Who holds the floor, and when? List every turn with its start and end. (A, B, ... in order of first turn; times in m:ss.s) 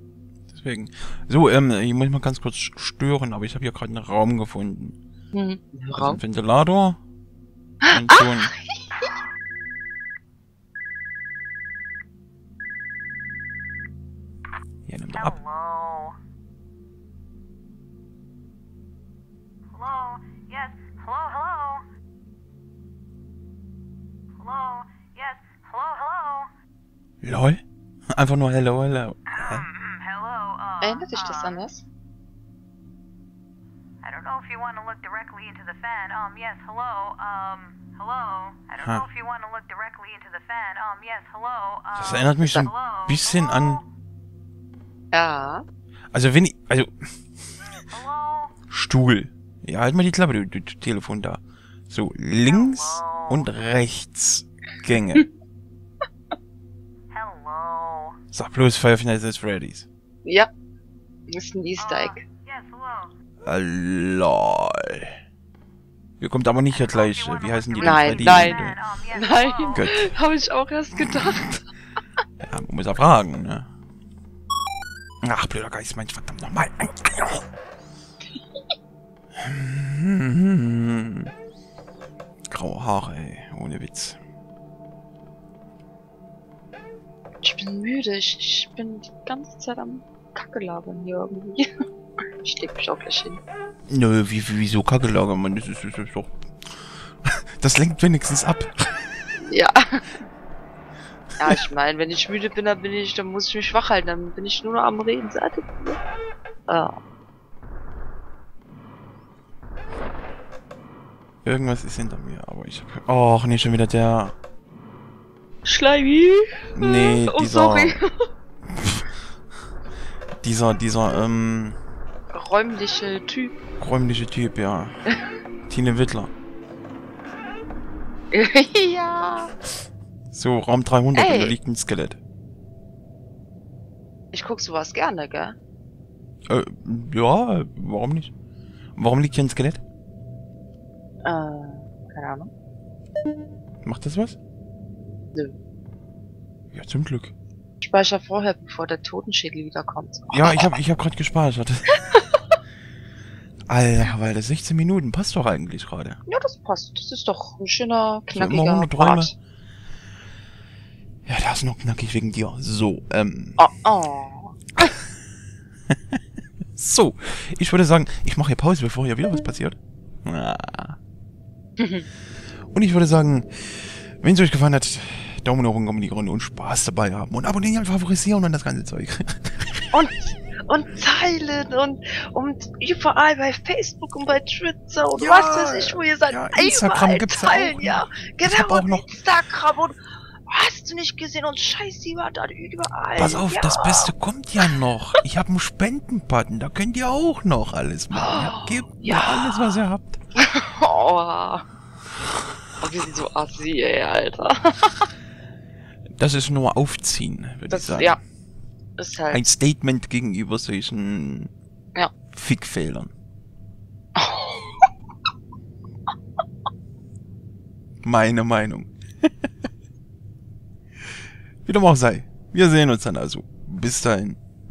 0:00.5-0:05.0 A
0:05.3-0:06.2 B
0:05.9-0:07.0 A
0:07.8-0:09.1 B
0:07.9-0:08.5 A
0:14.9-0:15.4 A
0:15.2-0:16.2 C
0:19.7-0:21.8 C
0:24.4-0:26.5 C
0:27.2-0:27.6 A
0:28.1-0:29.6 A
0:29.6-0:31.6 C
0:30.8-0:31.8 B
0:34.0-0:43.8 C
0:38.8-0:39.0 A
0:42.0-0:43.8 A
0:42.4-0:42.7 B
0:45.1-0:45.6 B
0:46.1-0:47.1 A
0:47.9-0:48.5 C
0:48.7-0:55.2 A
0:52.5-0:53.3 C
0:57.1-0:58.2 C
0:58.3-0:59.9 A
1:01.3-1:02.2 B
1:01.8-1:03.1 C
1:03.4-1:05.2 A
1:06.2-1:08.8 A
1:06.8-1:09.8 C
1:07.8-1:11.6 B
1:09.7-1:10.0 A
1:12.4-1:13.7 A
1:15.2-1:17.4 A
1:19.4-1:21.3 A
1:22.5-1:24.2 A
1:27.4-1:31.7 B
1:32.4-1:33.4 B
1:33.9-1:39.0 A
1:39.5-1:40.0 B
1:41.4-1:46.0 B
1:46.7-1:46.9 B
1:51.4-1:54.3 A
1:55.6-1:58.2 B
1:56.7-1:58.0 A
1:58.7-1:59.1 A
2:00.4-2:01.8 A
2:02.3-2:03.6 B
2:03.8-2:04.9 A
2:05.7-2:06.3 A
2:08.3-2:09.5 B
2:10.3-2:12.2 A
2:11.1-2:11.6 B
2:14.3-2:15.6 B
2:16.5-2:18.3 A
2:19.0-2:19.8 A
2:21.2-2:22.5 B
2:23.8-2:24.4 A
2:26.7-2:27.3 A
2:27.8-2:30.7 B
2:30.3-2:31.9 A
2:33.7-2:36.2 A
2:36.3-2:39.3 B
2:38.3-2:39.3 A
2:41.2-2:43.6 A
2:43.6-2:44.9 B
2:46.8-2:51.0 A
2:51.8-2:52.1 B
2:52.7-2:59.9 A
2:59.9-3:14.1 B
3:05.1-3:09.1 A
3:13.2-3:20.2 A
3:18.1-3:19.7 B
3:20.4-3:21.6 B
3:22.8-3:25.1 B
3:26.2-3:28.2 A
3:27.7-3:28.2 B
3:29.0-3:29.5 B
3:29.3-3:31.5 A
3:32.3-3:33.1 A
3:34.2-3:34.9 B
3:38.0-3:39.3 A
3:41.6-3:44.4 A